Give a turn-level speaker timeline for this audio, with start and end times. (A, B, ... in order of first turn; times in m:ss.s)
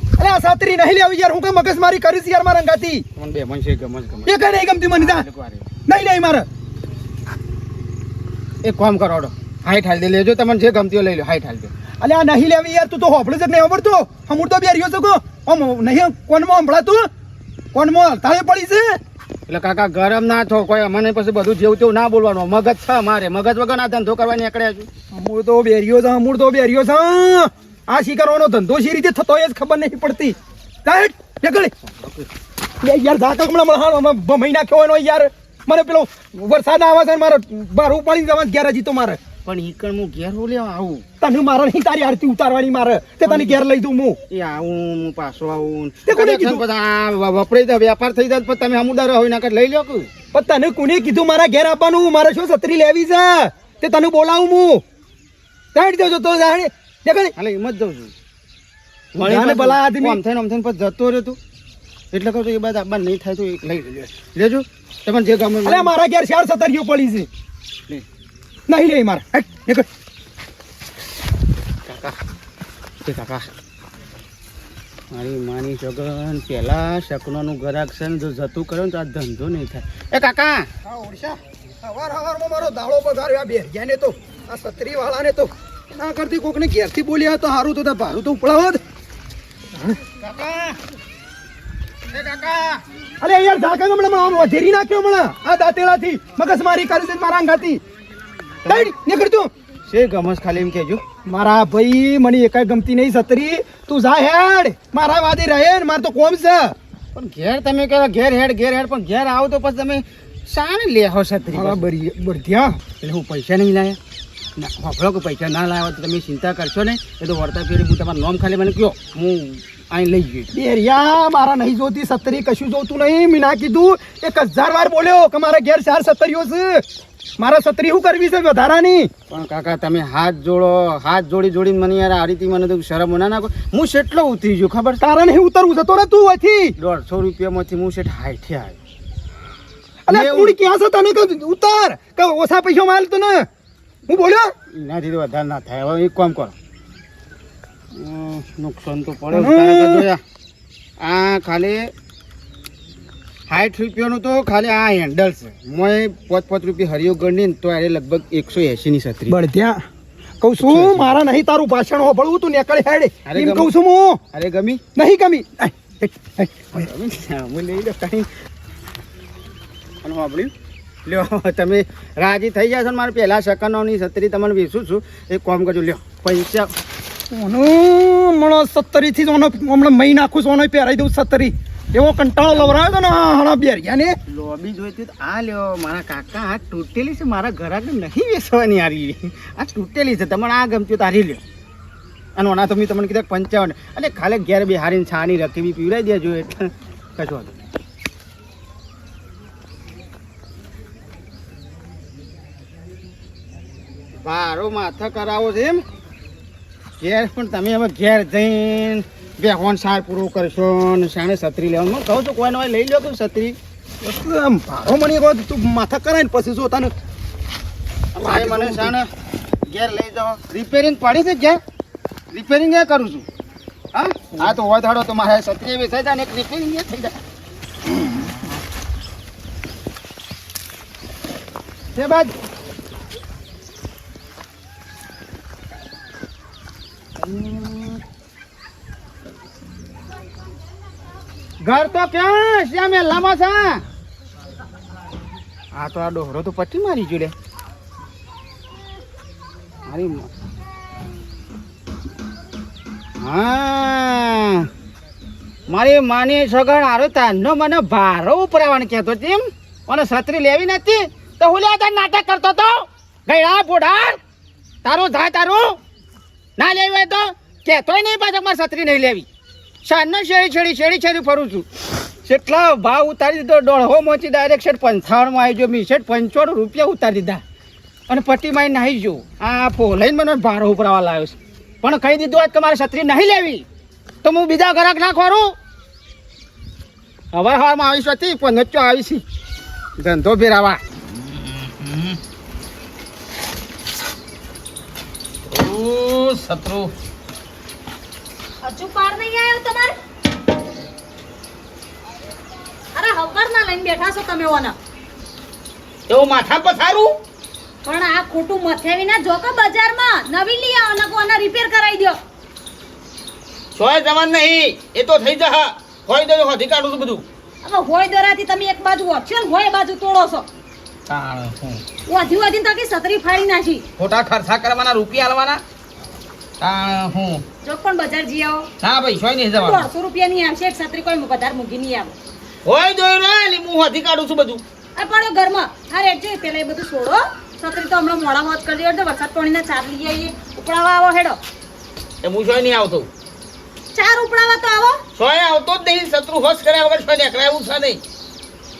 0:00.2-0:03.0 A
0:03.2-0:05.7 B
0:04.2-0:05.2 A
0:05.9-0:06.5 A
0:08.6-0:11.7 B
0:12.0-0:17.1 A
0:17.7-0:19.0 A
0:19.5-0:24.9 B
0:25.1-0:31.7 A
0:31.8-0:32.3 B
0:32.8-0:39.2 A
0:39.4-0:41.0 B
0:41.2-0:44.2 A
0:43.2-0:43.6 B
0:44.3-0:50.1 B
0:46.1-0:46.6 A
0:50.3-0:54.8 A
0:55.7-0:57.3 A
0:57.4-0:58.1 B
0:59.1-1:01.4 B
0:59.2-1:00.2 A
1:02.1-1:05.9 B
1:05.6-1:07.3 A
1:08.7-1:09.9 A
1:11.8-1:12.2 B
1:13.0-1:13.5 B
1:15.1-1:20.7 B
1:20.8-1:28.8 A
1:30.2-1:30.8 B
1:32.1-1:32.8 B
1:33.2-1:37.8 A
1:38.6-1:38.9 B
1:38.6-1:39.5 A
1:39.9-1:41.0 B
1:41.2-1:46.7 A
1:47.1-1:51.8 B
1:51.5-1:52.8 A
1:53.0-1:54.0 B
1:54.6-2:00.5 B
2:00.5-2:06.8 A
2:07.4-2:09.1 A
2:09.3-2:15.0 B
2:15.0-2:16.7 A
2:16.8-2:18.8 B
2:20.1-2:23.5 A
2:20.1-2:20.5 B
2:24.1-2:24.5 A
2:24.7-2:26.5 B
2:27.9-2:30.2 B
2:29.3-2:30.1 A
2:31.0-2:31.9 B
2:33.5-2:39.4 B
2:39.3-2:39.8 A
2:40.4-2:44.2 A
2:40.6-2:41.1 B
2:43.2-2:43.7 B
2:44.3-2:44.8 B
2:45.0-2:46.9 A
2:46.7-2:48.3 B
2:50.0-2:50.5 B
2:51.0-2:56.7 B
2:57.3-3:04.2 A
3:02.5-3:02.8 B
3:04.3-3:11.4 B
3:12.4-3:17.6 B
3:24.2-3:25.8 B
3:27.0-3:33.6 B
3:34.0-3:36.9 A
3:38.1-3:39.1 B
3:38.2-3:39.0 A
3:39.7-3:41.6 B
3:42.3-3:43.2 B
3:43.9-3:47.2 B
3:52.0-3:52.3 B
3:57.2-3:58.0 B
4:01.6-4:03.8 B
4:05.7-4:07.3 B
4:09.9-4:10.3 B
4:13.2-4:14.7 B
4:15.7-4:24.2 B
4:24.8-4:25.8 B
4:26.6-4:29.2 B
4:29.8-4:31.7 B
4:32.2-4:37.4 B
4:38.1-4:43.6 B
4:44.2-4:45.6 B
4:47.3-4:49.2 B
4:50.0-4:50.8 B
4:51.0-4:52.2 C
4:55.4-4:56.9 C
4:58.6-4:59.9 D
5:02.9-5:04.7 D
5:06.1-5:07.2 C
5:07.8-5:12.2 D
5:13.7-5:17.2 C
5:17.6-5:20.5 D
5:21.1-5:21.8 C
5:22.1-5:23.8 D
5:24.0-5:25.6 C
5:26.6-5:27.4 C
5:27.6-5:28.7 D
5:28.8-5:29.9 C
5:29.5-5:32.1 D
5:32.6-5:34.6 C
5:35.0-5:41.4 D
5:42.2-5:43.1 C
5:43.9-5:45.0 D
5:45.2-5:48.0 C